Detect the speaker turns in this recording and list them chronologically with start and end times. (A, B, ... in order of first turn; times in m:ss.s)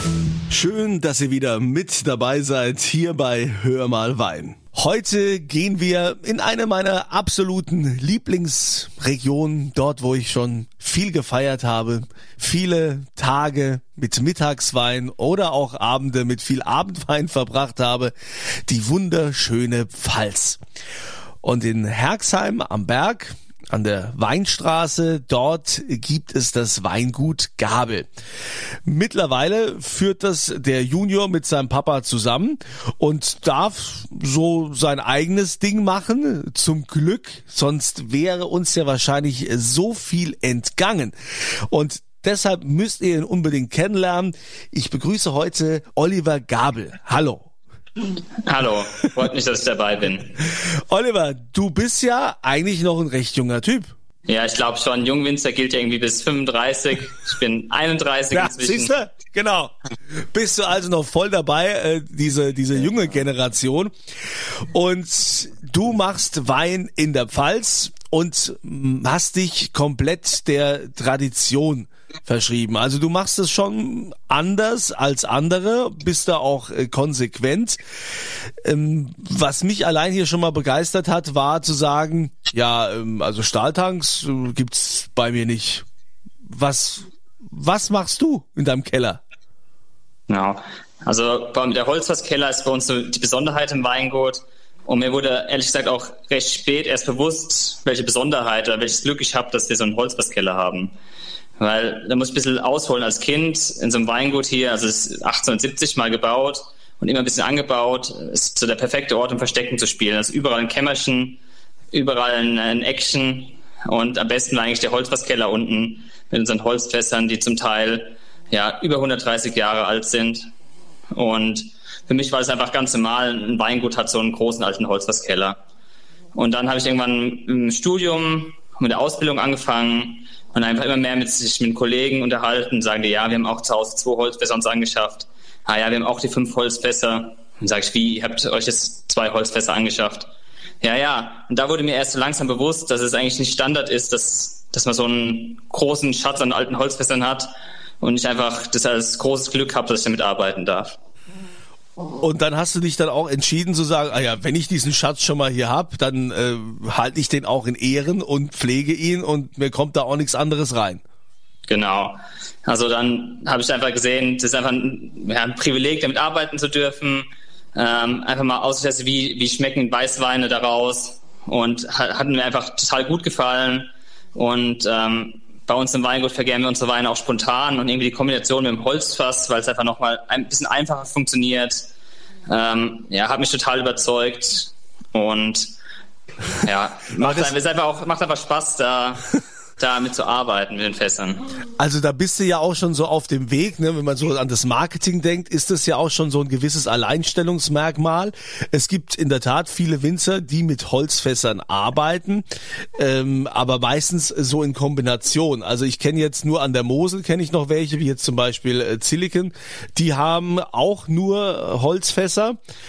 0:00.5-0:18.1 A
0:18.6-0:20.6 A
0:21.4-0:28.1 A
0:28.8-0:41.2 A
0:41.7-0:47.5 A
0:48.4-0:50.4 B
0:50.6-0:53.9 A
0:54.2-0:58.9 B
0:58.3-1:03.9 A
1:04.7-1:17.8 A
1:18.6-1:25.8 A
1:26.5-1:29.2 A
1:30.3-1:40.9 B
1:41.6-1:51.4 B
1:51.9-2:00.5 B
2:01.1-2:05.6 B
2:06.3-2:20.3 B
2:20.8-2:27.5 B
2:28.0-2:31.0 B
2:32.2-2:41.0 A
2:41.7-3:01.9 B
3:02.5-3:05.7 B
3:06.6-3:11.5 B
3:07.2-3:07.5 A
3:11.8-3:22.4 A
3:23.0-3:32.6 A